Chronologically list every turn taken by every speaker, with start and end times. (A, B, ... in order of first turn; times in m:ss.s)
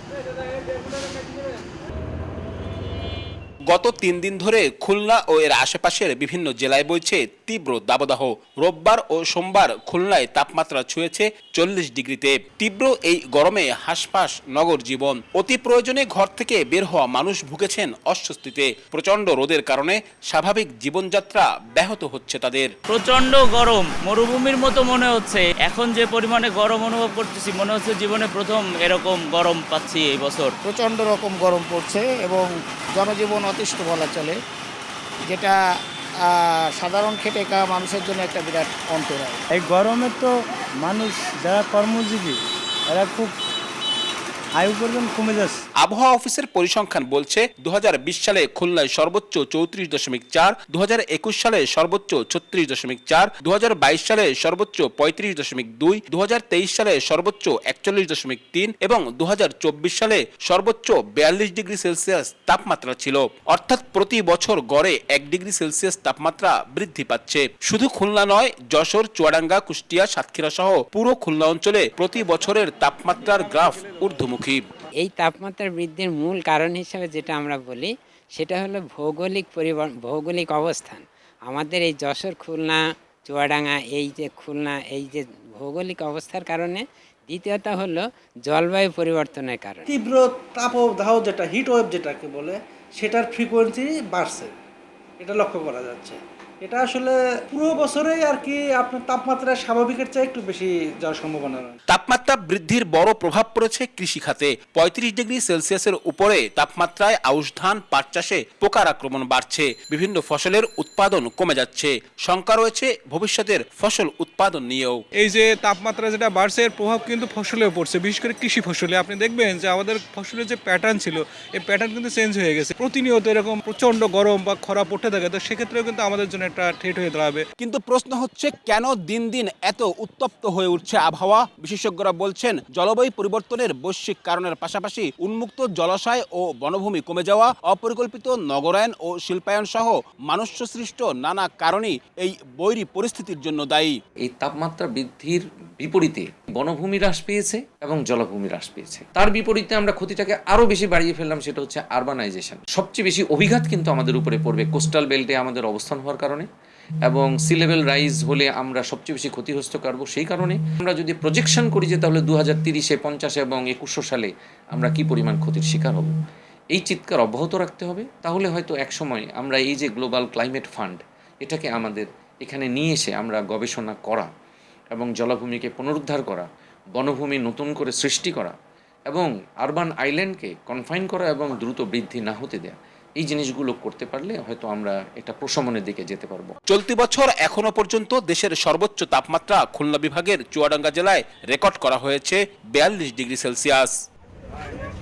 0:03.7-0:22.7 A
0:22.9-0:30.6 B
0:30.6-0:34.4 C
0:35.3-0:35.6 C
0:36.2-0:39.4 C
0:39.5-0:43.3 D
0:44.6-0:45.6 D
0:45.8-1:14.6 A
1:15.0-1:29.9 E
1:29.9-1:34.5 F
1:35.2-1:41.8 F
1:41.9-1:55.0 A
1:55.2-2:07.5 G
2:07.6-2:24.0 A
2:24.2-2:36.5 H
2:37.1-2:46.1 H
2:46.7-2:54.3 H
2:54.9-2:56.5 H
2:57.0-2:58.6 H
2:59.1-3:06.6 H
3:06.7-3:14.0 A